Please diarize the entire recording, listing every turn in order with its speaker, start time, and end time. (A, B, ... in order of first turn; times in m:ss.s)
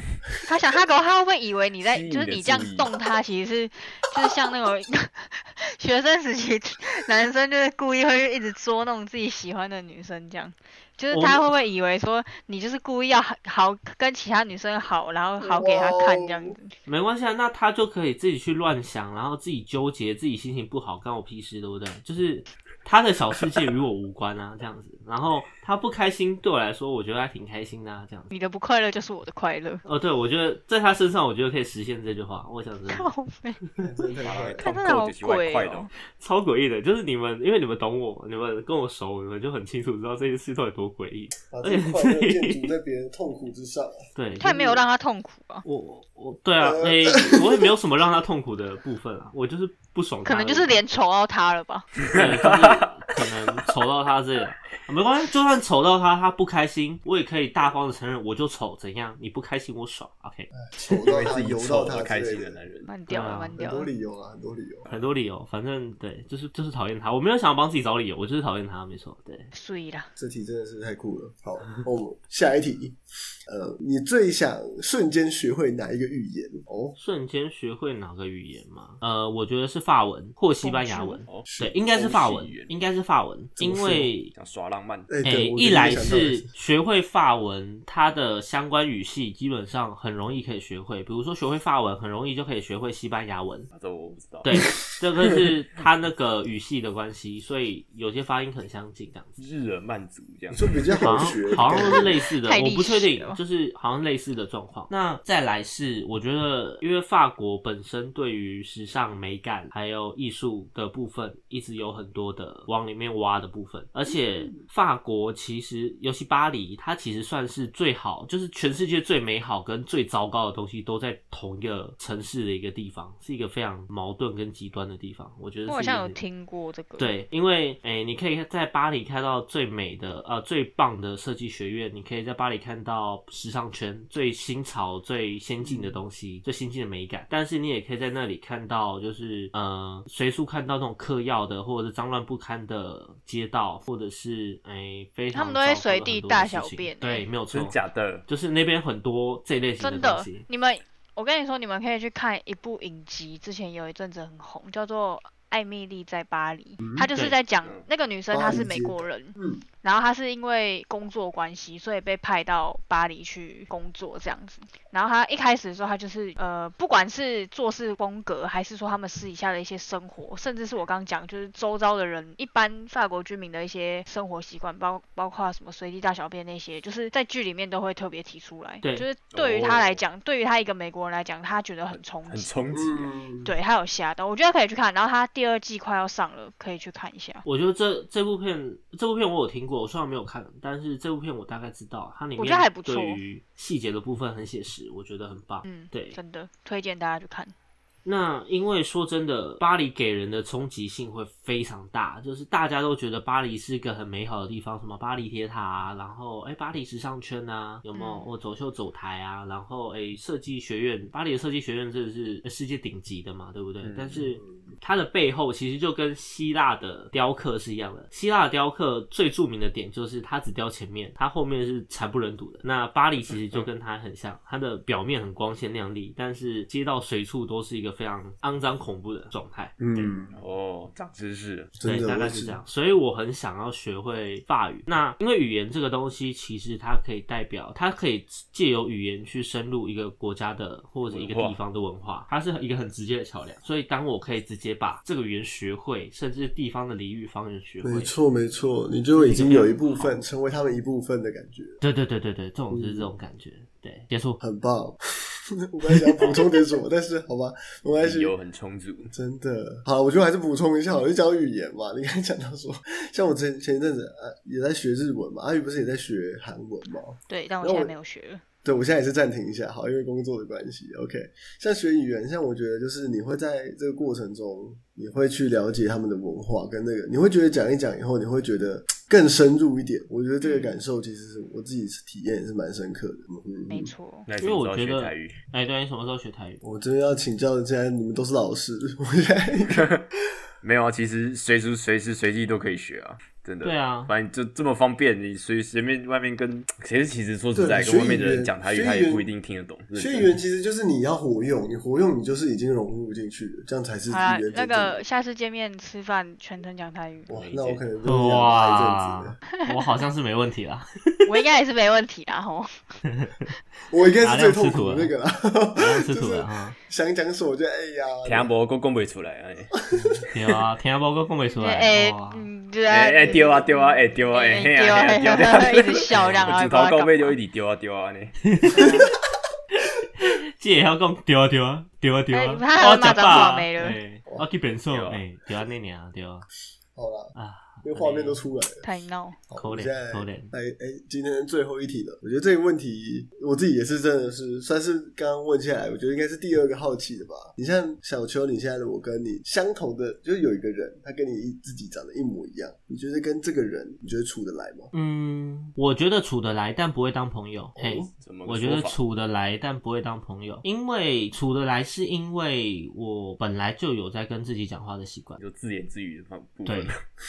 0:00.4-0:16.7 A
0:01.8-0:02.9 B
0:11.1-0:11.4 C
0:15.4-0:16.5 D
0:16.8-0:28.3 C
0:28.3-0:29.8 A
0:29.8-0:33.1 C
0:32.9-0:33.6 A
0:33.8-0:34.7 D
0:34.2-0:35.9 B
0:34.6-0:35.9 A
0:36.2-0:42.7 C
0:41.5-0:44.0 D
0:44.2-0:44.8 C
0:44.4-0:45.6 A
0:45.6-0:50.8 C
0:46.6-0:47.4 D
0:50.2-0:51.9 A
0:52.0-0:53.0 B
0:52.1-1:00.5 C
1:00.5-1:02.6 D
1:00.9-1:02.9 B
1:02.9-1:03.9 A
1:03.1-1:03.6 C
1:03.6-1:04.9 D
1:04.9-1:09.5 C
1:09.5-1:10.1 A
1:10.2-1:17.0 D
1:17.0-1:24.3 C
1:20.6-1:21.2 A
1:21.2-1:22.7 B
1:21.5-1:22.0 D
1:23.6-1:24.1 D
1:24.3-1:25.1 B
1:25.1-1:26.5 D
1:25.2-1:33.7 C
1:33.7-1:34.6 B
1:34.4-1:39.4 C
1:39.4-1:40.7 B
1:40.5-1:42.1 D
1:41.0-2:06.2 C
1:41.6-1:43.4 A
1:54.1-1:54.6 D
2:05.7-2:07.1 A
2:07.0-2:30.4 C
2:15.6-2:16.0 D
2:25.3-2:27.3 A
2:27.5-2:28.2 B
2:29.8-3:02.5 A
2:36.8-2:37.1 D
2:38.3-2:39.6 D
2:58.8-2:59.1 C
2:59.3-3:00.0 B
3:01.9-3:03.1 B
3:02.7-3:03.5 D
3:03.4-3:07.4 A
3:07.4-3:16.2 C
3:12.4-3:13.2 A
3:15.6-3:17.5 A
3:18.0-3:50.1 C
3:27.9-3:28.3 A
3:33.8-3:34.2 B
3:34.4-3:34.8 D
3:49.8-3:50.4 D
3:50.3-3:51.7 B
3:51.8-3:52.6 D
3:51.8-4:08.1 C
4:01.1-4:01.6 B
4:07.8-4:11.8 D
4:09.1-4:10.1 C
4:11.8-4:14.4 C
4:12.7-4:13.1 D
4:14.4-4:15.0 D
4:15.6-4:18.3 D
4:18.0-4:19.1 B
4:19.1-4:27.9 D
4:27.3-4:28.4 A
4:28.6-4:43.9 D
4:40.4-4:40.8 A
4:43.7-4:44.3 A
4:44.2-4:45.3 B
4:44.4-4:46.6 C
4:46.6-4:49.9 D
4:49.7-4:50.0 B
4:50.6-5:00.4 B
4:53.6-4:54.1 C
4:57.5-4:59.3 D
5:00.0-5:05.0 D
5:04.1-5:07.3 A
5:07.3-5:09.4 D
5:07.3-5:07.8 B
5:08.0-5:11.3 C
5:11.2-5:12.7 A
5:13.1-5:13.5 C
5:13.9-5:18.5 D
5:14.2-5:15.1 C
5:15.7-5:16.8 C
5:18.2-5:19.8 B
5:20.0-5:20.2 D
5:20.3-5:22.5 C
5:21.5-5:27.4 A
5:22.9-5:28.4 B
5:26.1-5:26.7 C
5:28.4-5:28.9 C
5:28.7-5:29.1 A
5:28.8-5:29.0 D
5:29.7-5:36.4 C
5:32.3-5:34.0 A
5:34.9-5:35.2 B
5:36.9-5:38.9 D
5:37.3-5:38.4 C
5:38.8-5:39.4 A
5:39.5-5:54.9 D
5:39.6-5:40.5 C
5:54.9-6:05.4 C
5:57.8-5:58.1 D
5:58.2-5:59.0 B
6:05.4-6:07.0 B
6:06.6-6:06.9 C